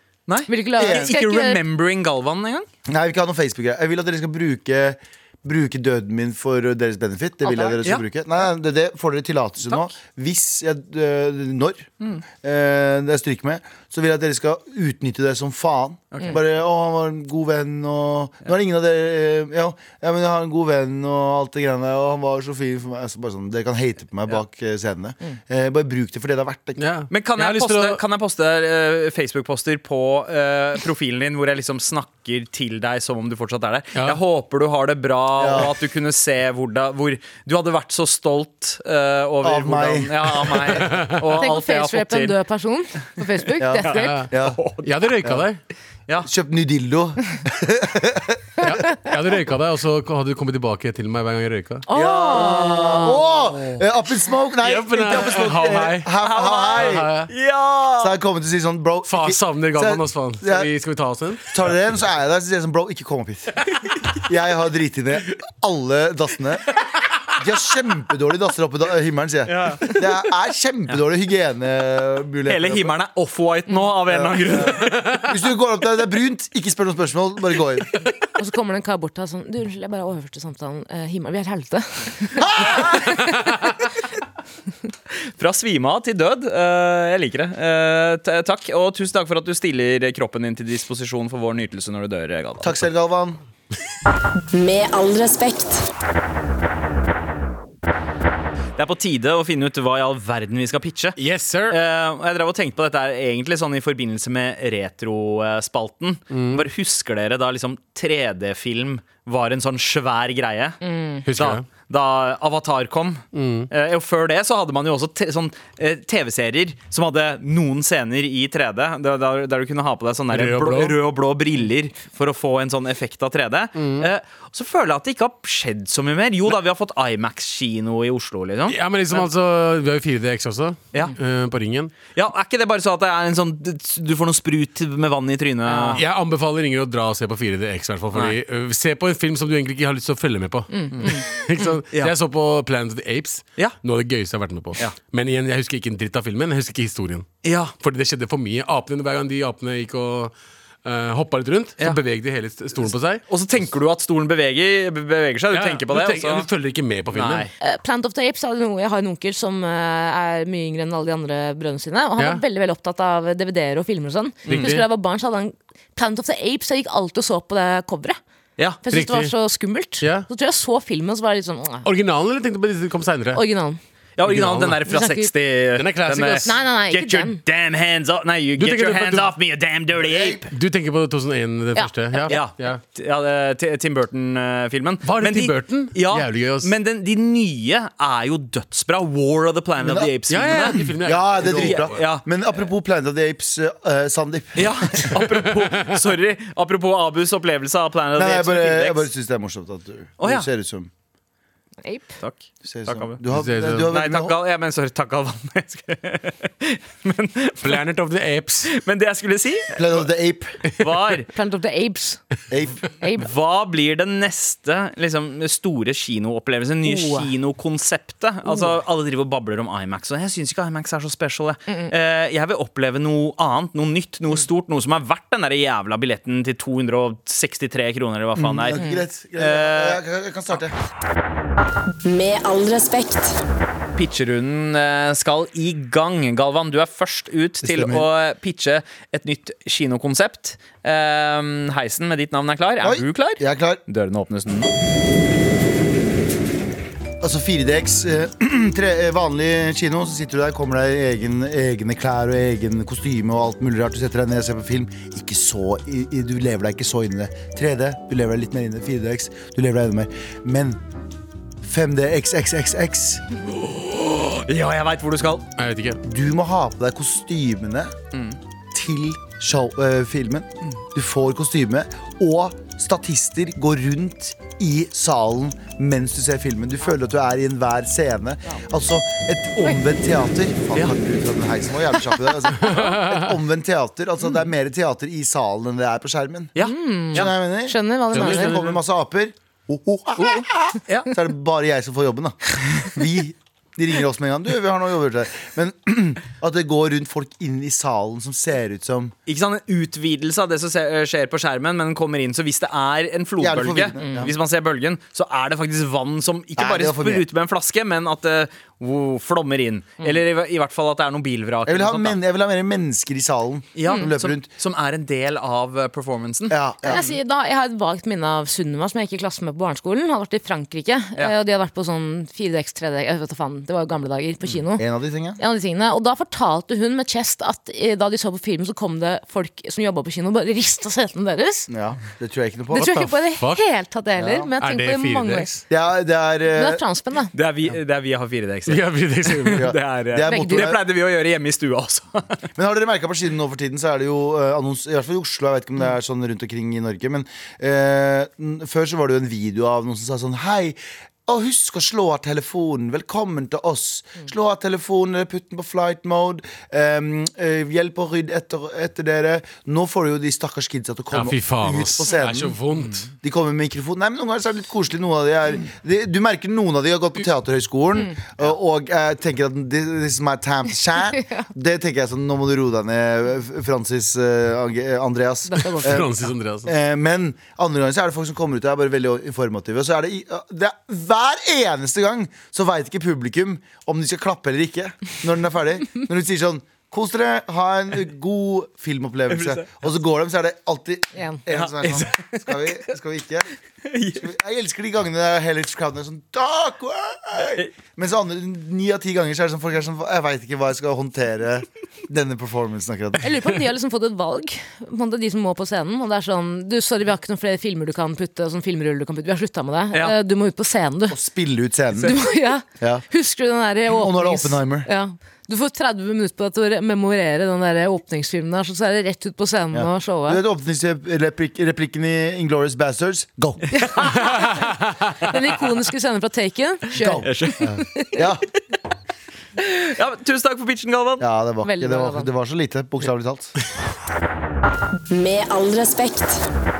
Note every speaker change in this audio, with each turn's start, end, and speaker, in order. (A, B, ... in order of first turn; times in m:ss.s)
0:00.3-0:02.7 A
0:00.5-0:01.6 B
0:00.8-0:01.1 C
0:02.9-0:26.8 C
0:07.4-0:07.8 B
0:16.1-0:16.4 A
0:26.8-0:28.0 D
0:27.1-0:42.4 A
0:35.4-0:35.7 C
0:39.4-0:40.8 C
0:41.3-0:44.2 B
0:43.6-0:44.6 C
0:43.8-0:44.9 A
0:44.0-0:44.3 D
0:44.8-0:45.6 D
0:46.2-0:48.8 C
0:48.6-0:51.8 D
0:51.9-0:53.2 B
0:51.9-0:57.1 C
0:54.6-0:56.1 D
0:56.2-0:58.2 A
0:56.7-0:57.3 D
0:58.0-1:00.7 C
0:59.1-1:01.6 D
1:01.5-1:03.6 C
1:04.2-1:06.7 C
1:07.4-1:12.9 C
1:09.5-1:10.0 A
1:12.5-1:15.1 A
1:14.1-1:18.0 C
1:18.4-1:23.5 B
1:22.4-1:22.9 C
1:25.4-1:32.8 A
1:32.6-1:33.4 C
1:34.5-1:35.9 E
1:38.8-1:41.2 A
1:41.2-1:41.8 D
1:41.7-1:50.8 A
1:46.3-1:46.7 D
1:50.8-1:51.2 B
1:51.2-1:51.6 D
1:51.3-2:09.3 A
1:53.3-1:53.7 D
2:00.3-2:01.0 D
2:03.8-2:04.1 D
2:08.7-2:11.9 D
2:12.1-2:16.0 A
2:15.7-2:16.0 B
2:15.9-2:27.3 D
2:20.7-2:21.7 B
2:27.4-2:27.7 A
2:27.8-2:30.3 D
2:30.8-2:33.2 D
2:33.3-2:36.5 A
2:35.5-2:37.5 D
2:37.1-2:37.5 A
2:37.6-2:48.2 B
2:42.2-2:42.4 D
2:44.4-2:44.8 A
2:44.4-2:44.9 D
2:48.8-2:51.9 B
2:48.9-2:49.3 D
2:50.0-2:50.3 D
2:51.8-2:53.4 D
2:53.3-2:53.8 B
2:54.2-3:00.5 A
2:54.2-2:54.9 D
2:54.9-2:55.3 B
2:55.7-2:56.6 D
2:56.4-2:57.4 B
2:58.6-2:59.3 D
3:00.0-3:00.4 C
3:00.4-3:02.8 D
3:01.7-3:02.3 B
3:02.3-3:12.2 A
3:05.0-3:06.7 D
3:09.8-3:15.2 C
3:10.3-3:12.0 D
3:14.6-3:19.1 A
3:18.1-3:20.9 C
3:20.2-3:20.5 A
3:21.8-3:22.1 B
3:22.2-3:23.2 A
3:22.6-3:24.3 C
3:23.3-3:23.9 D
3:23.8-3:27.8 A
3:27.6-3:28.7 D
3:28.7-3:30.0 A
3:29.7-3:30.6 C
3:30.8-3:31.3 A
3:31.3-3:32.2 B
3:32.5-3:32.8 C
3:33.0-3:33.3 B
3:33.2-3:50.0 A
3:36.8-3:37.3 B
3:48.4-3:50.7 C
3:48.7-3:49.0 B
3:52.0-3:53.4 E
3:54.0-4:04.7 A
3:57.6-3:58.1 C
4:02.8-4:03.8 C
4:07.2-4:20.8 C
4:21.6-4:23.2 C
4:23.6-4:25.5 A
4:25.6-4:26.0 D
4:26.0-4:27.9 C
4:28.1-4:28.4 A
4:28.7-4:46.5 C
4:42.6-4:43.3 D
4:46.5-4:47.3 A
4:46.6-4:48.6 B
4:47.1-4:59.1 C
4:48.1-4:48.8 D
4:50.2-4:51.1 A
4:59.3-5:12.2 A
5:03.4-5:04.3 C
5:04.0-5:04.3 B
5:06.6-5:07.2 C
5:11.6-5:14.5 C
5:13.7-5:17.0 A
5:16.5-5:17.1 C
5:16.8-5:24.8 B
5:24.8-5:25.4 C
5:25.4-5:31.7 B
5:31.7-5:32.9 C
5:32.7-5:35.5 B
5:32.8-5:33.6 D
5:34.2-5:34.5 C
5:34.6-5:35.6 D
5:35.7-5:36.8 C
5:36.5-5:37.3 B
5:37.3-5:42.4 A
5:38.7-5:39.7 D
5:39.5-5:40.8 C
5:40.2-5:40.7 B
5:42.5-6:02.6 C
6:01.1-6:03.1 D
6:03.2-6:16.1 C
6:15.5-6:16.0 B
6:15.8-6:16.7 D
6:16.6-6:33.5 C
6:29.3-6:29.6 A
6:31.2-6:31.4 B
6:31.5-6:32.7 A
6:33.8-6:34.3 A
6:34.1-6:43.2 C
6:37.4-6:37.7 A
6:43.2-6:51.2 B
6:51.1-6:52.1 C
6:52.0-6:52.2 A
6:52.0-7:00.4 B
6:52.8-6:53.0 C
6:53.9-6:54.9 C
6:59.7-7:03.9 C
7:03.7-7:08.2 B
7:04.3-7:05.1 D
7:06.9-7:08.4 C
7:07.2-7:07.7 A
7:09.6-7:11.2 A
7:11.2-7:13.5 C
7:11.6-7:12.3 B
7:15.1-7:16.5 E